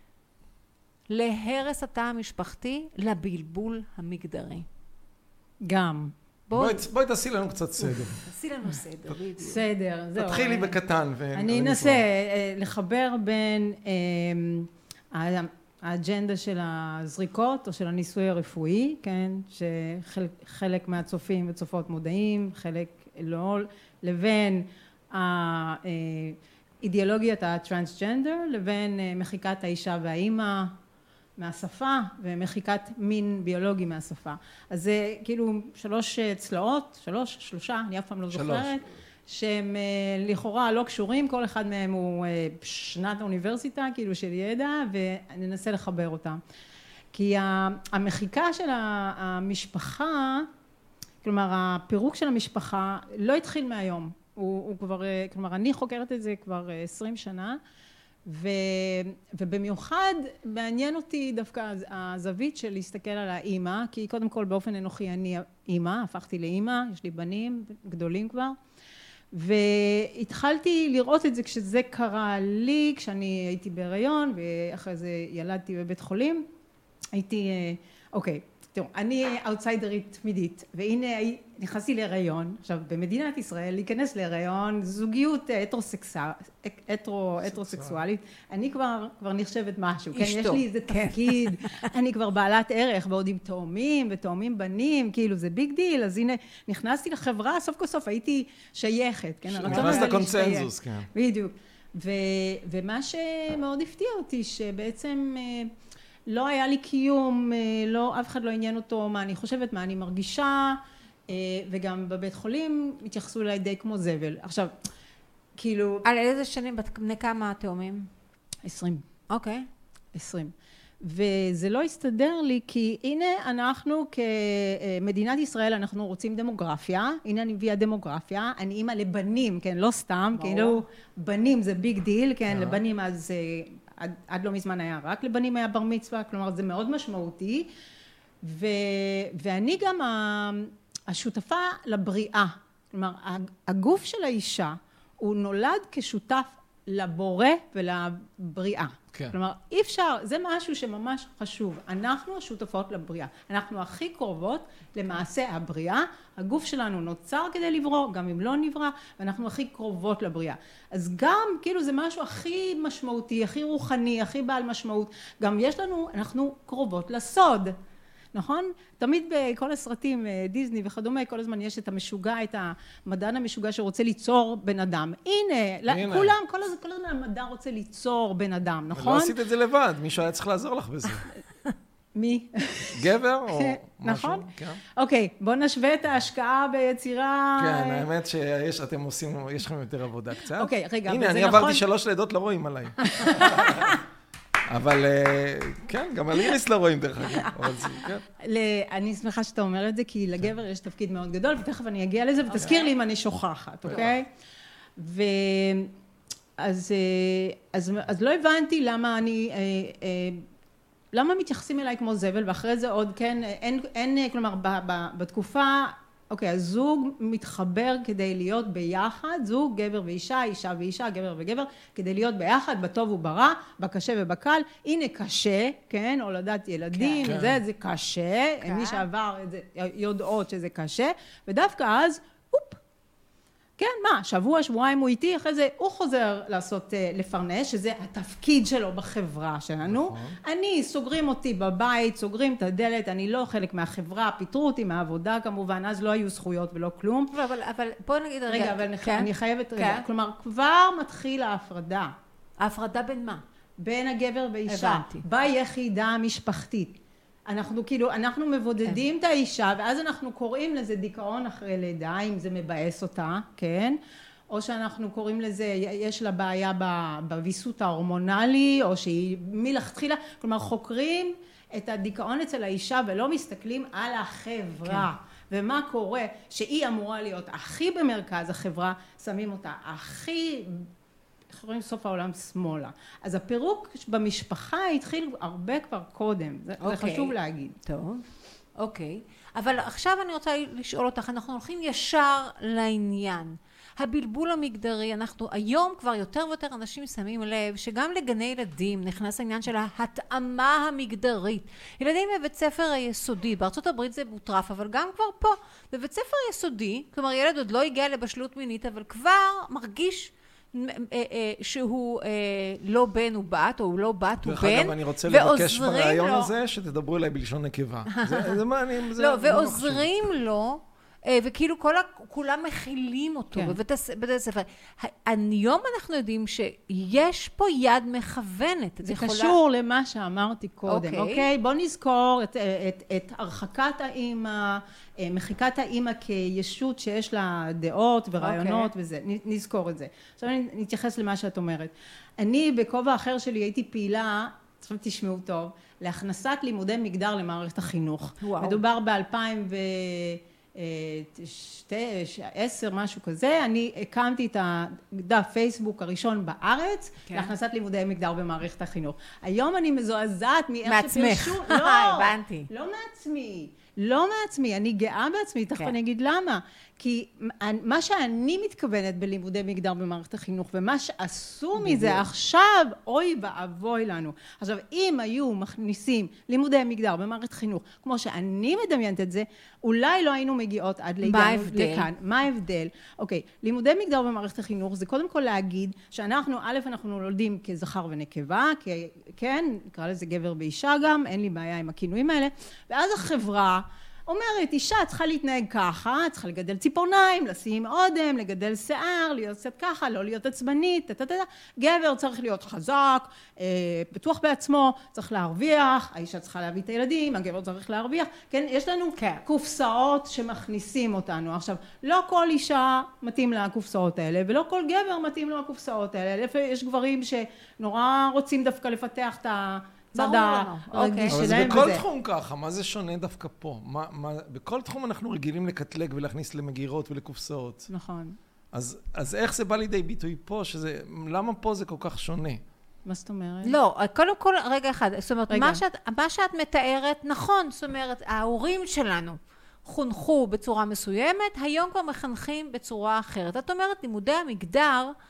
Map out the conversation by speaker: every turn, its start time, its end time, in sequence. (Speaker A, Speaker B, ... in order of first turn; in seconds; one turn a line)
Speaker A: 1.1-4.7
Speaker B: 5.6-6.1
Speaker A: 6.5-6.8
Speaker C: 6.5-8.2
Speaker A: 8.1-9.6
Speaker B: 9.4-10.8
Speaker C: 10.2-12.0
Speaker B: 11.3-30.7
Speaker B: 31.4-46.4
Speaker C: 38.3-38.8
Speaker B: 47.1-50.5
Speaker B: 51.2-57.6
Speaker B: 58.2-68.6
Speaker B: 69.3-76.5
Speaker B: 77.1-105.7
Speaker C: 87.4-88.0
Speaker A: 90.1-91.9
Speaker A: 99.6-100.2
Speaker C: 99.6-101.1
Speaker B: 106.3-114.7
Speaker B: 115.6-116.0
Speaker A: 116.0-118.1
Speaker B: 118.6-119.0
Speaker A: 119.3-119.7
Speaker B: 120.1-137.7
Speaker A: 130.3-130.8
Speaker C: 132.5-132.8
Speaker B: 138.4-167.8
Speaker B: 168.3-179.3
Speaker C: 175.9-176.3
Speaker C: 178.9-181.3
Speaker B: 182.2-188.1
Speaker C: 182.9-184.8
Speaker C: 187.6-193.9
Speaker B: 190.6-191.8
Speaker B: 193.1-193.9
Speaker C: 194.7-198.2
Speaker B: 198.4-204.3
Speaker C: 203.9-204.2
Speaker B: 205.0-205.9
Speaker B: 206.6-210.4
Speaker B: 211.1-232.8
Speaker A: 226.9-227.3
Speaker C: 227.2-227.6
Speaker A: 228.6-229.1
Speaker B: 233.8-247.3
Speaker C: 239.9-240.4
Speaker A: 247.3-250.1
Speaker B: 248.5-252.1
Speaker A: 252.6-253.4
Speaker B: 253.8-256.9
Speaker A: 254.7-255.2
Speaker B: 257.5-264.0
Speaker B: 264.5-280.9
Speaker B: 281.5-287.8
Speaker A: 286.8-287.3
Speaker A: 287.9-288.2
Speaker A: 288.8-316.5
Speaker C: 314.4-320.1
Speaker A: 318.1-329.6
Speaker B: 329.0-422.0
Speaker A: 330.9-331.5
Speaker A: 338.4-338.9
Speaker A: 348.4-348.8
Speaker A: 360.9-362.7
Speaker A: 381.2-382.1
Speaker A: 409.2-409.4
Speaker A: 420.1-421.5
Speaker C: 421.3-427.9
Speaker B: 427.9-428.4
Speaker C: 428.7-432.6
Speaker B: 433.1-433.8
Speaker A: 433.6-445.1
Speaker B: 435.5-435.8